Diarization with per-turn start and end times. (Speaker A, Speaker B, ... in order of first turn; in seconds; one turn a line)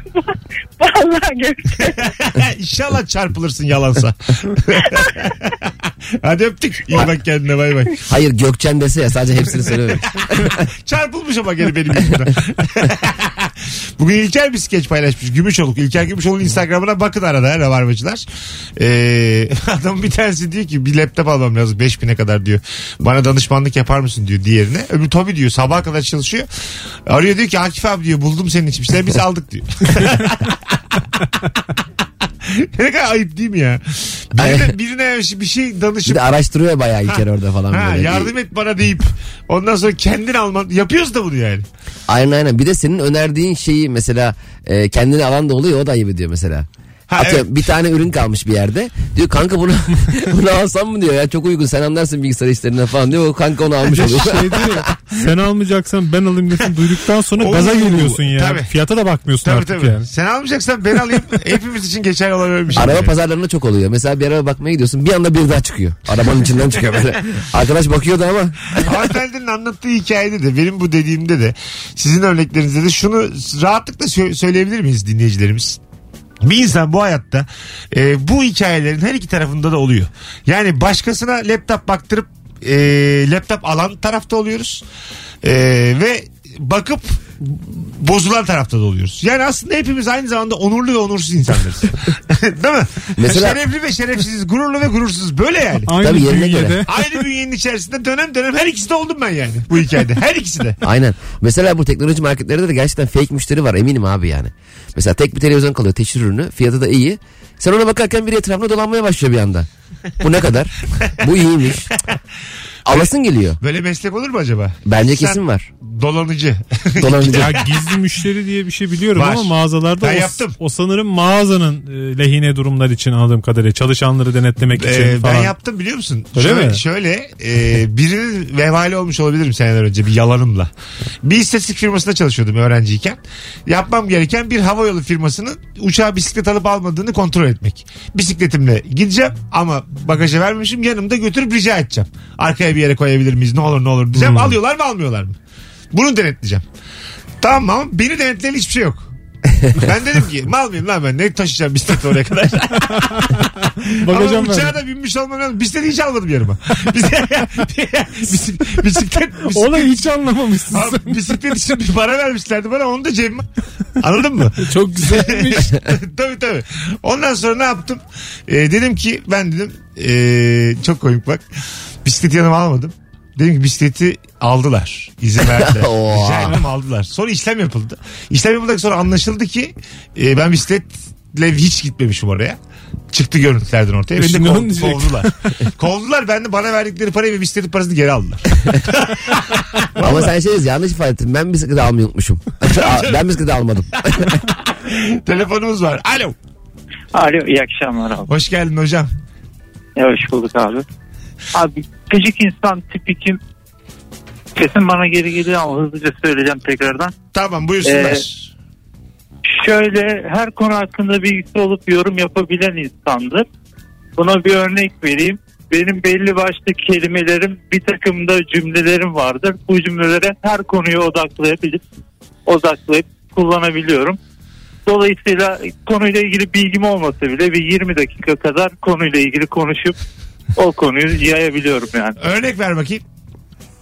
Speaker A: 0.1-2.1
Speaker B: 2.0-8.0
Speaker C: 8.1-10.6
Speaker B: 10.8-18.2
Speaker B: 18.8-26.5
Speaker B: 27.1-31.4
Speaker B: 32.4-36.2
Speaker C: 34.4-34.8
Speaker C: 36.0-38.3
Speaker B: 37.7-41.6
Speaker C: 42.1-54.8
Speaker B: 47.1-47.6
Speaker D: 53.8-60.1
Speaker B: 57.4-58.7
Speaker B: 59.4-63.1
Speaker C: 62.7-68.8
Speaker B: 68.8-75.8
Speaker B: 76.4-84.8
Speaker B: 85.4-95.9
Speaker C: 93.2-93.6
Speaker D: 95.8-97.2
Speaker C: 96.0-96.8
Speaker B: 96.8-100.8
Speaker C: 100.8-109.7
Speaker C: 110.2-111.9
Speaker C: 112.8-113.6
Speaker B: 112.9-117.9
Speaker C: 114.8-115.7
Speaker C: 117.0-117.6
Speaker D: 117.2-125.5
Speaker B: 119.1-120.6
Speaker B: 124.8-130.7
Speaker D: 126.3-126.8
Speaker B: 131.2-145.4
Speaker D: 144.2-144.5
Speaker B: 145.9-146.6
Speaker B: 147.4-149.1
Speaker B: 149.7-160.1
Speaker D: 153.1-153.5
Speaker D: 154.0-154.8
Speaker D: 159.5-161.6
Speaker B: 160.7-163.5
Speaker B: 164.0-171.4
Speaker D: 164.6-165.7
Speaker B: 172.0-182.6
Speaker C: 175.4-176.6
Speaker B: 183.1-190.3
Speaker D: 184.2-185.5
Speaker C: 190.0-194.4
Speaker B: 192.7-193.2
Speaker B: 194.5-196.3
Speaker E: 197.1-198.3
Speaker B: 198.3-199.1
Speaker E: 199.9-200.8
Speaker E: 201.5-203.4
Speaker E: 204.5-207.1
Speaker B: 207.3-208.5
Speaker E: 207.8-208.2
Speaker E: 209.5-213.5
Speaker E: 214.2-221.8
Speaker E: 222.4-224.2
Speaker E: 224.8-230.0
Speaker E: 230.5-232.2
Speaker B: 232.2-233.0